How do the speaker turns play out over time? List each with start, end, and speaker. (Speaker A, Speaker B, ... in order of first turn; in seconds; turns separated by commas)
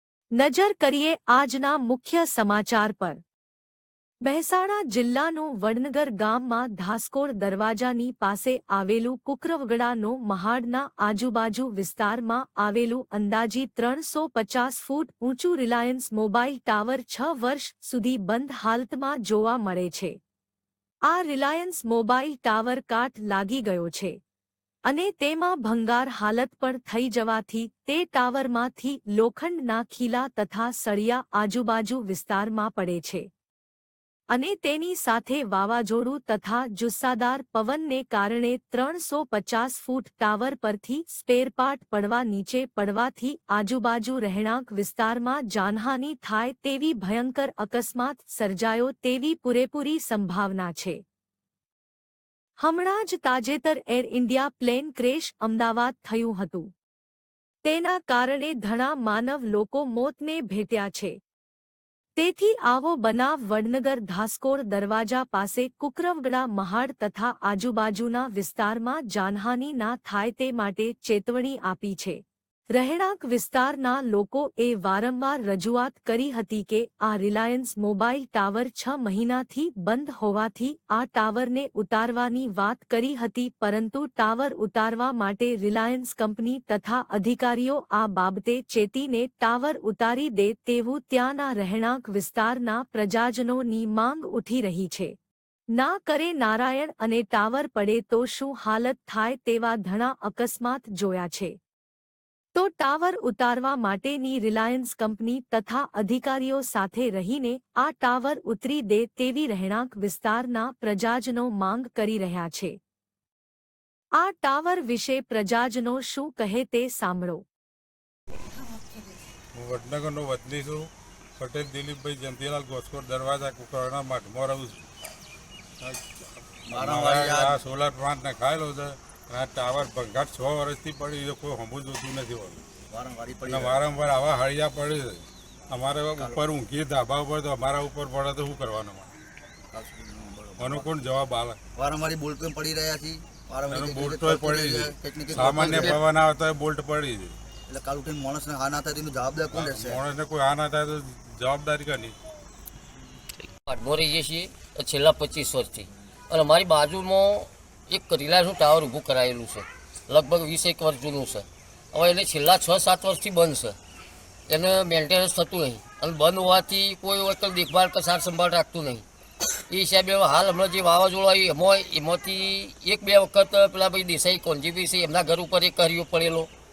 Speaker A: 0.4-3.2, Speaker A: 4.2-20.2, Speaker A: 21.1-24.2, Speaker A: 24.9-33.3, Speaker A: 34.3-51.0, Speaker A: 52.6-56.7, Speaker A: 57.6-61.2, Speaker A: 62.2-95.2, Speaker A: 95.8-101.6, Speaker A: 102.5-112.8, Speaker A: 114.2-117.4, Speaker B: 119.5-124.8, Speaker B: 125.8-132.6, Speaker C: 126.7-127.6, Speaker C: 132.9-133.8, Speaker B: 133.5-139.1, Speaker C: 136.2-136.4, Speaker C: 139.7-140.9, Speaker B: 140.6-141.6, Speaker C: 141.8-146.0, Speaker B: 143.7-147.3, Speaker C: 147.7-150.0, Speaker B: 149.5-152.2, Speaker D: 153.7-163.8, Speaker D: 164.5-169.0, Speaker D: 169.7-176.5